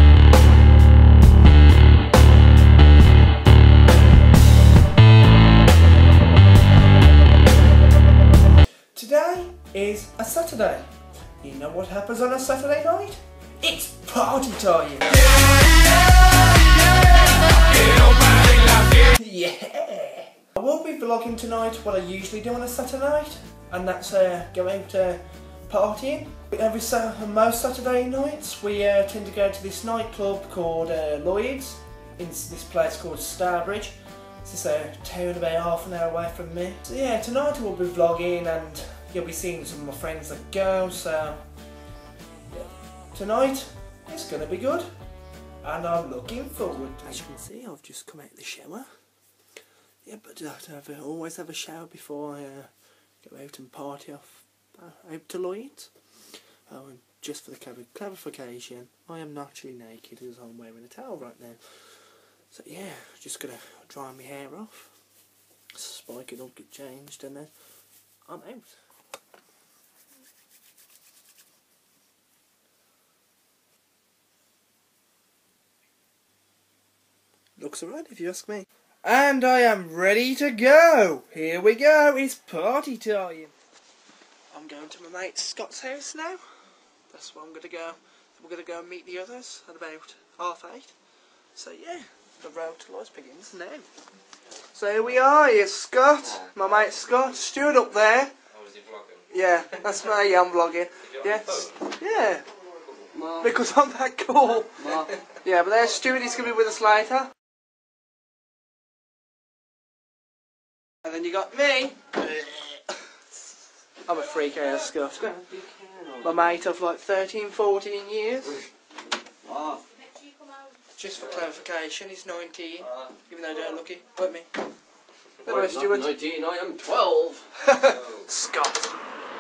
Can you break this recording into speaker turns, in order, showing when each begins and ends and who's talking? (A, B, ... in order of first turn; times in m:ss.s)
0:08.9-0:10.9 A
0:11.4-0:15.2 A
0:19.0-0:41.5 A
0:42.5-0:44.9 A
0:45.6-0:48.9 A
0:50.0-0:55.9 A
0:56.7-1:05.0 A
1:05.7-1:07.5 A
1:08.3-1:08.8 A
1:17.6-1:23.5 A
1:24.5-1:26.4 A
1:27.1-1:30.9 A
1:31.6-1:33.9 A
1:34.7-1:38.3 A
1:38.7-1:39.1 B
1:39.3-1:42.4 A
1:43.1-1:43.5 B
1:43.4-1:47.3 A
1:44.8-1:45.1 B
1:51.0-1:52.1 A
1:54.1-1:55.3 A
1:55.1-1:56.5 B
1:56.2-1:58.6 A
1:59.4-1:59.8 B
2:01.0-2:04.5 A
2:05.4-2:06.1 A
2:05.4-2:07.4 B
2:07.6-2:08.9 A